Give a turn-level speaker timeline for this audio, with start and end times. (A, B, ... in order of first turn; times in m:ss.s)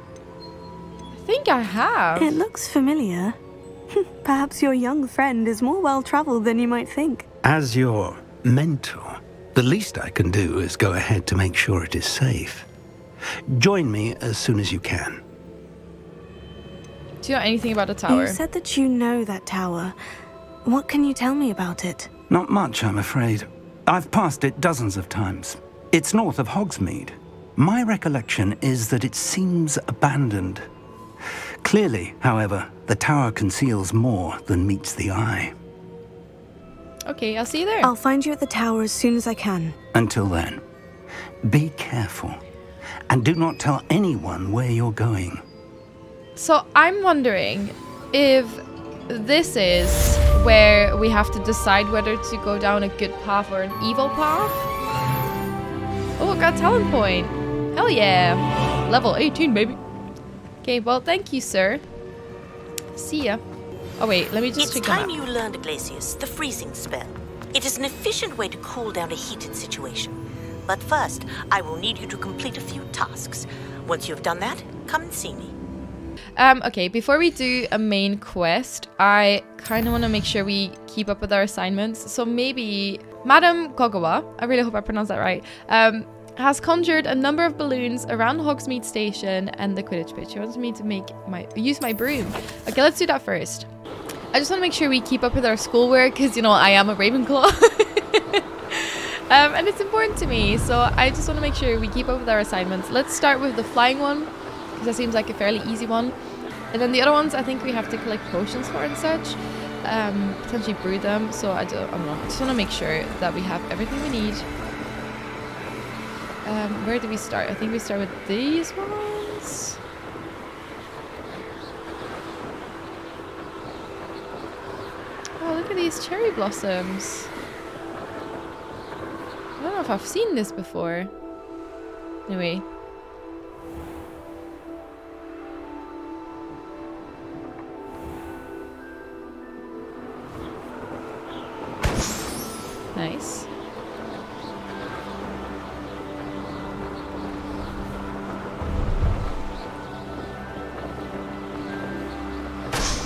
0:01.2-0:02.4 A
0:02.2-0:03.4 B
0:03.9-0:07.3 B
0:07.4-0:12.7 C
0:13.5-0:15.2 C
0:17.2-0:18.4 A
0:18.1-0:20.0 B
0:20.6-0:22.1 B
0:22.3-0:30.7 C
0:31.6-0:35.5 C
0:37.1-0:37.9 A
0:37.8-0:39.8 B
0:39.9-0:40.6 C
0:41.4-0:42.4 C
0:43.1-0:45.4 C
0:46.4-0:54.6 A
0:56.2-0:59.8 A
1:00.6-1:01.8 A
1:03.0-1:03.4 A
1:04.0-1:05.1 A
1:04.6-1:15.5 D
1:16.4-1:33.7 A
1:34.3-1:46.2 A
1:46.7-1:54.5 A
1:56.4-1:59.8 A
2:05.4-2:07.3 A
2:09.6-2:11.1 A
2:12.3-2:12.6 A
2:22.9-2:23.5 A